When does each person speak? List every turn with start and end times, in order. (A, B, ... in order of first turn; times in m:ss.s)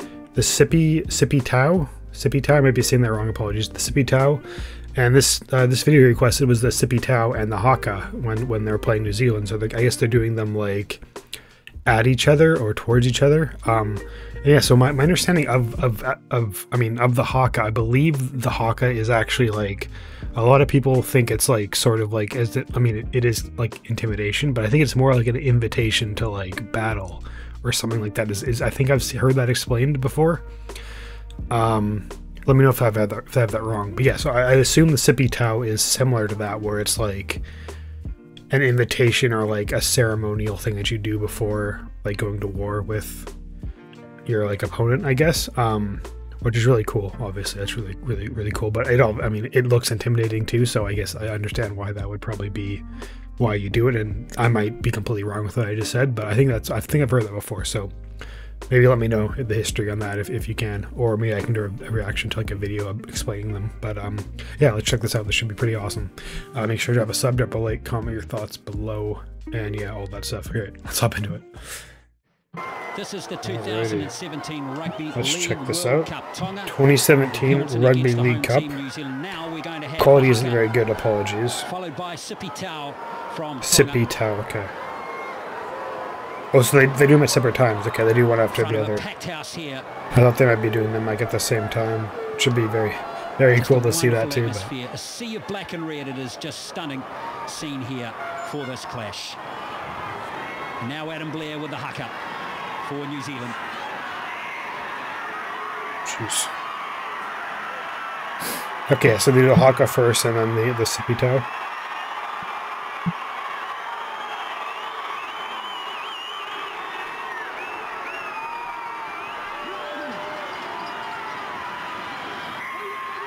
0:00.3-0:04.4 A
0:04.9-0:11.0 A
0:11.8-0:30.4 A
0:31.5-0:37.4 A
0:38.5-0:43.3 A
0:44.3-0:52.8 A
0:53.4-0:57.9 A
0:58.7-1:11.5 A
1:12.9-1:20.7 B
1:13.4-1:14.1 A
1:15.1-1:16.1 A
1:16.6-1:18.7 A
1:20.0-1:21.7 A
1:21.6-1:24.0 B
1:23.6-1:24.7 A
1:26.5-1:29.0 A
1:28.5-1:29.8 B
1:30.1-1:34.7 A
1:33.6-1:39.4 B
1:40.8-1:42.1 B
1:42.8-1:43.6 B
1:46.0-1:46.5 A
1:48.9-1:51.5 A